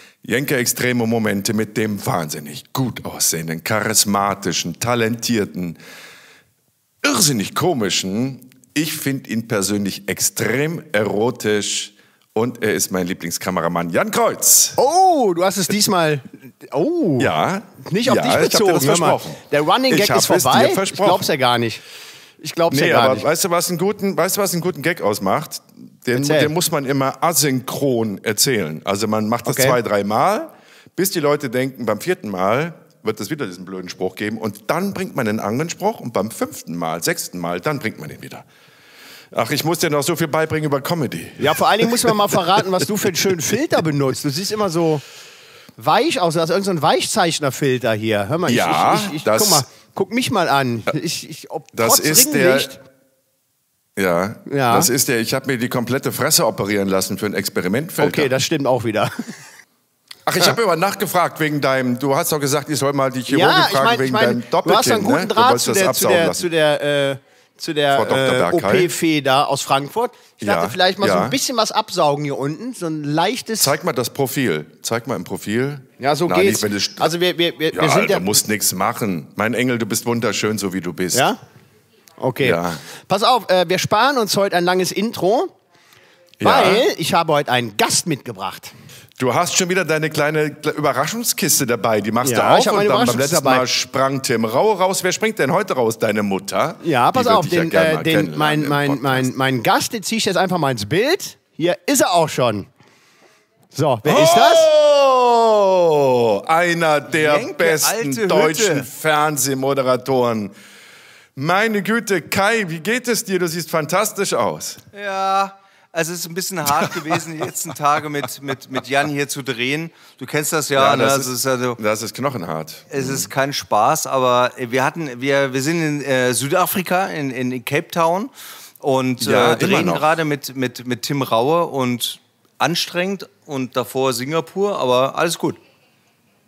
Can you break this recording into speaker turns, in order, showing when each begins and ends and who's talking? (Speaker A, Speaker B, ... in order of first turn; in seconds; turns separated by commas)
Speaker A: 0.2-5.8, Speaker A: 7.0-14.8, Speaker B: 14.8-17.3, Speaker A: 17.2-21.3, Speaker B: 17.8-21.8, Speaker B: 22.4-23.2, Speaker A: 22.7-38.5, Speaker B: 26.1-26.5, Speaker B: 29.5-29.8, Speaker A: 39.3-42.2, Speaker B: 41.4-45.0, Speaker B: 45.8-52.8, Speaker A: 48.5-49.6, Speaker A: 51.7-52.8, Speaker A: 54.0-58.3, Speaker B: 54.5-54.9, Speaker B: 58.0-59.4, Speaker A: 60.3-66.5, Speaker B: 63.3-73.8, Speaker A: 67.9-68.9, Speaker A: 70.4-71.4, Speaker A: 73.6-77.1, Speaker B: 76.0-78.3, Speaker A: 77.7-81.3, Speaker B: 81.1-81.4, Speaker B: 82.2-85.5, Speaker A: 82.4-82.8, Speaker A: 86.4-86.8, Speaker B: 86.4-88.7, Speaker A: 89.2-99.3, Speaker B: 92.2-93.7, Speaker B: 96.8-102.7, Speaker B: 103.7-104.7, Speaker A: 104.1-110.5, Speaker C: 107.1-108.9, Speaker A: 111.4-114.8, Speaker C: 114.9-121.8, Speaker A: 116.7-117.2, Speaker A: 120.7-123.3, Speaker C: 122.9-128.3, Speaker C: 128.8-135.6, Speaker A: 129.2-130.2